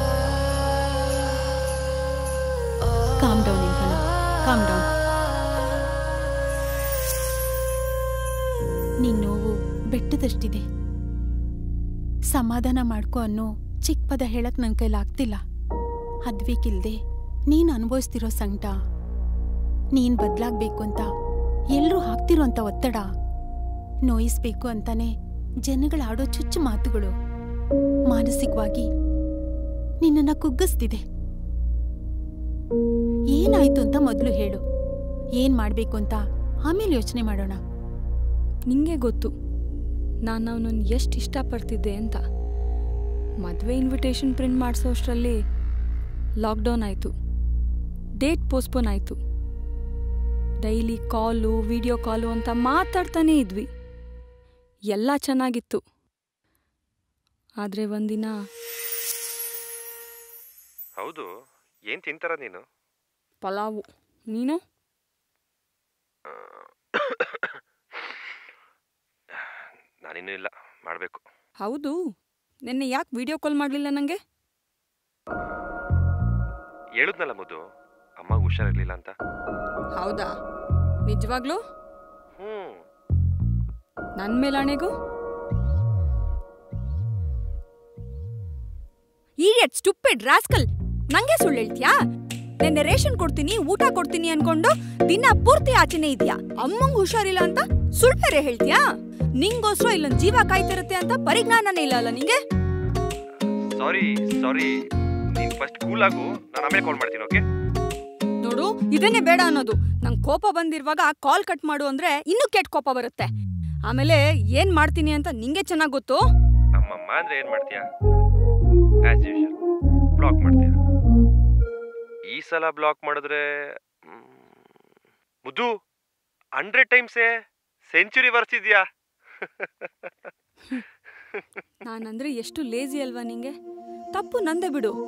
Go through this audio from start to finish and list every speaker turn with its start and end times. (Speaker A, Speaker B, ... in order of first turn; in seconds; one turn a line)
Speaker A: 3.2-4.9
Speaker A: 9.0-10.6
Speaker A: 12.3-15.4
Speaker A: 16.3-17.0
Speaker A: 17.5-18.7
Speaker A: 20.0-21.1
Speaker A: 21.8-23.1
Speaker A: 24.1-25.1
Speaker A: 25.7-27.1
Speaker A: 28.1-28.9
Speaker A: 30.0-31.0
Speaker A: 33.3-34.6
Speaker A: 35.4-37.6
Speaker B: 38.7-39.3
Speaker B: 40.3-42.2
Speaker B: 43.4-45.4
Speaker B: 46.4-47.1
Speaker B: 48.2-49.2
Speaker B: 50.6-53.7
Speaker B: 54.9-55.8
Speaker B: 57.6-58.4
Speaker C: 61.0-61.3
Speaker C: 61.9-62.6
Speaker B: 63.4-64.6
Speaker C: 66.3-67.6
Speaker C: 70.0-71.2
Speaker B: 71.6-72.0
Speaker B: 72.7-74.2
Speaker C: 77.0-77.6
Speaker C: 78.2-79.1
Speaker B: 80.0-80.3
Speaker B: 81.1-81.6
Speaker C: 82.4-82.8
Speaker B: 84.2-84.9
Speaker B: 89.4-91.9
Speaker B: 92.6-98.8
Speaker B: 99.4-102.4
Speaker C: 103.7-104.8
Speaker C: 105.3-107.4
Speaker B: 108.5-113.3
Speaker B: 113.9-116.2
Speaker C: 116.8-117.8
Speaker C: 119.1-119.5
Speaker C: 120.2-120.8
Speaker C: 122.3-124.8
Speaker C: 125.5-125.7
Speaker C: 126.6-127.3
Speaker C: 127.9-128.8
Speaker C: 129.5-130.1
Speaker B: 131.9-133.5
Speaker B: 134.1-134.9